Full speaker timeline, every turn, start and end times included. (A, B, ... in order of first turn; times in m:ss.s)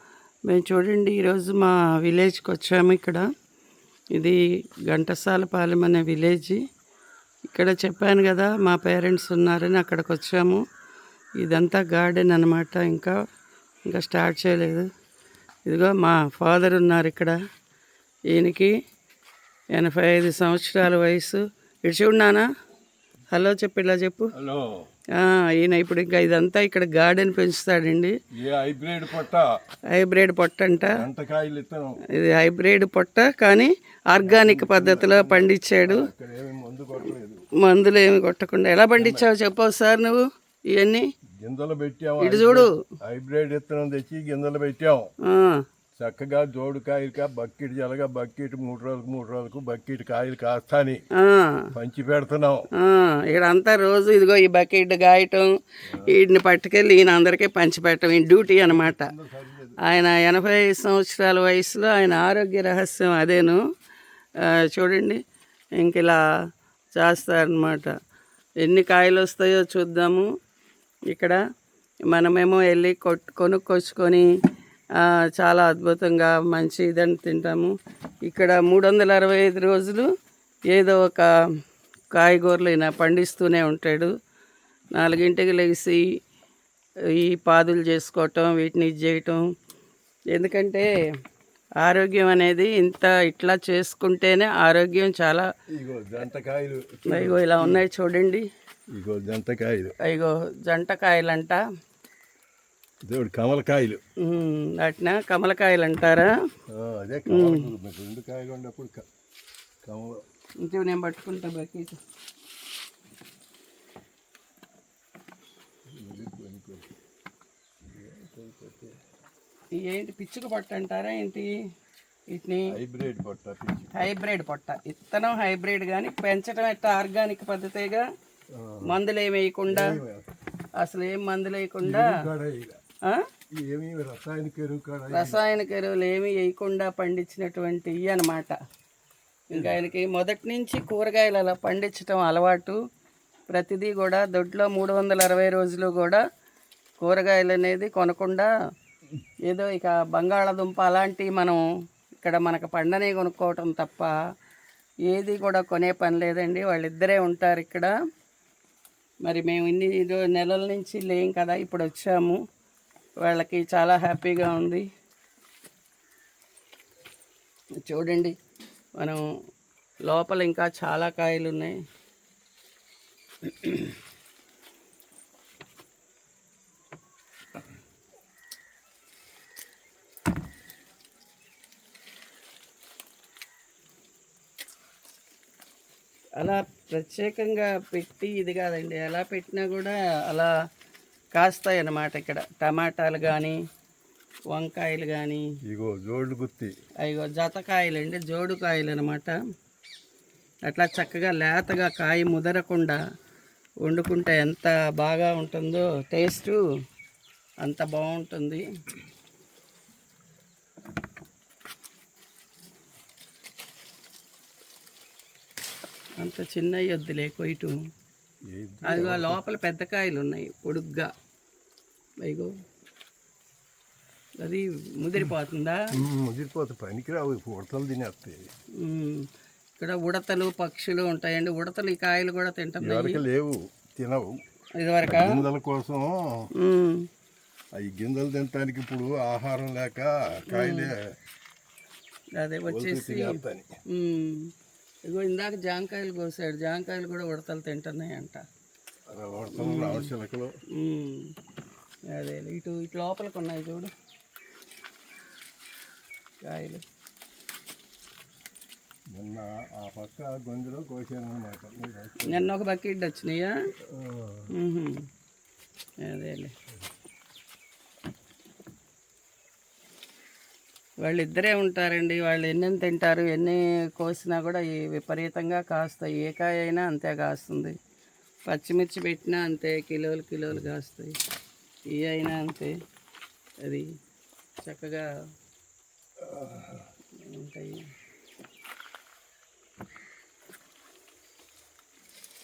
0:00.5-0:03.2 A
0:04.1-0:06.6 A
0:07.5-0:10.6 A
0:11.4-0:13.1 A
0:13.9-0:14.9 A
0:15.7-0:17.3 A
0:18.3-0:18.7 A
0:19.7-0:22.5 A
0:23.3-0:24.3 A
0:24.3-0:24.9 B
0:25.2-0:28.1 A
0:28.3-0:29.5 B
0:29.9-0:31.0 A
0:30.8-0:32.0 B
0:32.1-0:36.1 A
0:34.2-0:37.4 B
0:37.6-0:40.2 A
0:39.0-0:39.3 B
0:40.7-0:41.0 A
0:41.4-0:45.1 B
0:42.2-0:42.7 A
0:45.2-0:45.6 A
0:46.0-0:51.0 B
0:51.2-0:51.7 A
0:51.7-0:52.6 B
0:52.8-0:55.5 A
0:55.8-0:56.1 B
0:56.1-0:59.1 A
0:58.6-0:59.8 B
0:59.8-1:03.6 A
1:04.6-1:05.2 A
1:05.8-1:06.2 A
1:07.0-1:07.9 A
1:08.6-1:10.3 A
1:11.1-1:11.4 A
1:12.1-1:14.3 A
1:15.0-1:17.7 A
1:18.3-1:20.1 A
1:20.7-1:21.3 A
1:22.1-1:24.1 A
1:25.0-1:26.0 A
1:27.2-1:29.4 A
1:30.3-1:30.8 A
1:31.8-1:35.5 A
1:35.8-1:37.8 B
1:37.1-1:38.5 A
1:39.0-1:39.9 B
1:40.0-1:41.6 A
1:43.1-1:44.0 B
1:44.2-1:46.3 A
1:46.7-1:49.0 B
1:47.3-1:47.7 A
1:49.8-1:50.2 B
1:50.6-1:52.0 A
1:56.0-1:56.9 B
1:57.8-1:58.9 B
1:59.8-2:01.5 A
2:02.3-2:02.7 A
2:02.7-2:03.9 B
2:03.9-2:08.0 A
2:08.5-2:09.0 B
2:08.8-2:10.0 A
2:09.7-2:10.3 B
2:10.8-2:12.2 A
2:11.8-2:12.8 B
2:13.6-2:15.5 B
2:15.1-2:18.6 A
2:19.5-2:22.8 A
2:19.5-2:19.8 B
2:23.5-2:26.2 A
2:27.0-2:28.5 A
2:29.5-2:31.6 A
2:32.2-2:34.1 A
2:35.1-2:37.9 A
2:39.2-2:42.4 A
2:43.2-2:44.9 A
2:47.8-2:48.3 A
2:50.0-2:51.8 A
2:53.4-2:54.0 A
3:06.4-3:10.5 A
3:11.3-3:13.6 A
3:14.5-3:15.4 A
3:15.7-3:16.7 B
3:17.0-3:19.3 A
3:20.7-3:23.0 A
3:23.8-3:26.6 A
3:27.6-3:28.6 A
3:36.2-3:37.7 A
3:38.5-3:39.4 B
3:38.8-3:41.1 A
3:42.2-3:42.5 A
3:44.4-3:45.8 A
3:45.9-3:48.4 B
3:48.8-3:49.2 A
3:49.8-3:53.2 A
3:52.8-3:54.4 B
3:54.8-3:55.4 A
3:55.1-3:56.4 B
3:56.6-3:57.0 A
3:57.8-4:01.0 B
4:00.5-4:00.9 A
4:02.4-4:03.4 A
4:02.7-4:03.7 B
4:03.9-4:04.4 A
4:05.1-4:08.4 A
4:09.1-4:10.5 B
4:09.6-4:10.1 A
4:10.8-4:11.3 A
4:12.1-4:13.9 A
4:16.4-4:16.8 A
4:19.1-4:22.5 B
4:22.3-4:23.5 A
4:23.9-4:24.5 B
4:24.5-4:25.0 A
4:26.0-4:26.5 A
4:31.0-4:37.8 A
4:38.5-4:41.1 A
4:41.9-4:42.7 A
4:44.6-4:45.0 A
4:46.2-4:46.9 B
4:47.2-4:47.8 A